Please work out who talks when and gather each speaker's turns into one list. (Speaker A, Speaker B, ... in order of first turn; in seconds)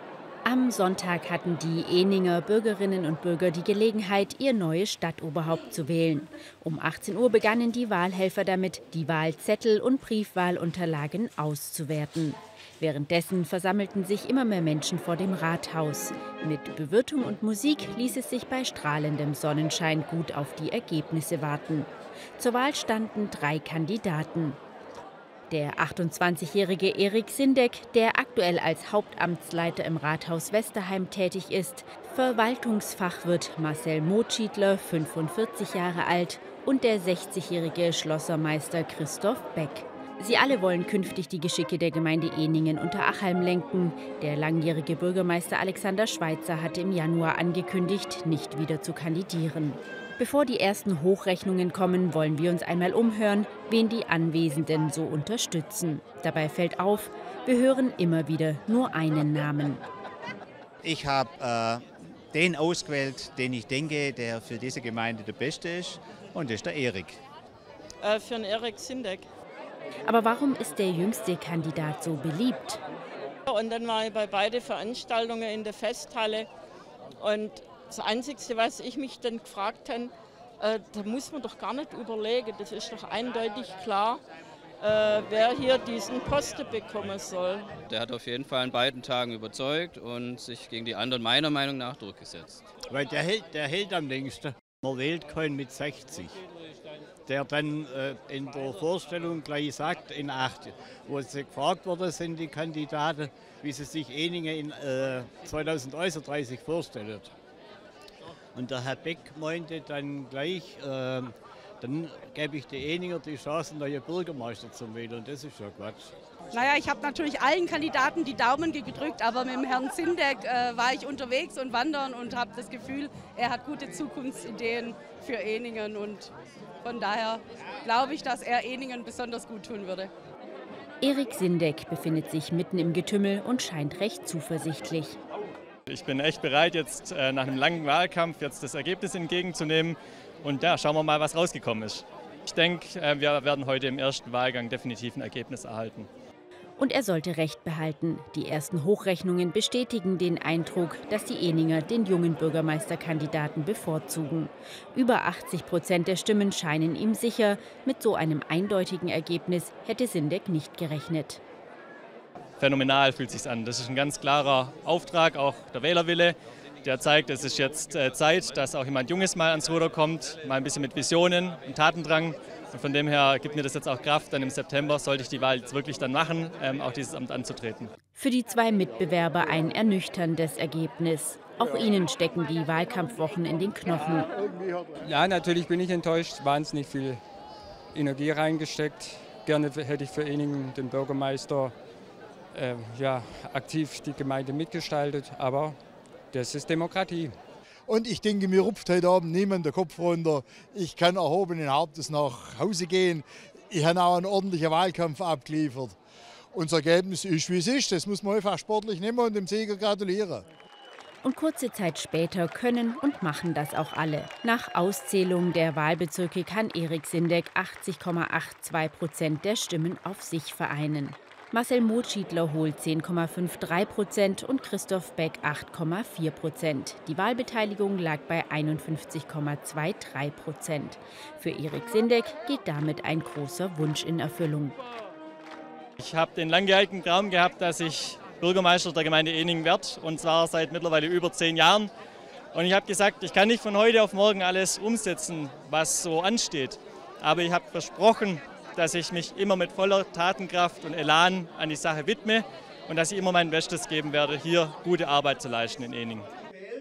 Speaker A: 0.5-24.6, 25.5-59.8, 70.1-72.8, 131.0-135.2, 146.8-161.4, 178.2-184.3, 211.2-234.8
Speaker B: 60.8-67.2
Speaker C: 68.0-69.2, 73.5-76.5, 77.2-84.2, 84.8-87.7
Speaker D: 87.9-92.6
Speaker E: 92.9-96.4, 97.3-107.3, 108.5-116.1
Speaker F: 116.5-126.3, 126.8-130.1
Speaker G: 135.9-146.1, 162.6-177.9, 236.0-241.9, 242.5-256.3
Speaker H: 185.0-187.2, 187.9-191.7, 192.5-195.8, 196.3-197.3
Speaker I: 197.9-206.0, 206.5-210.4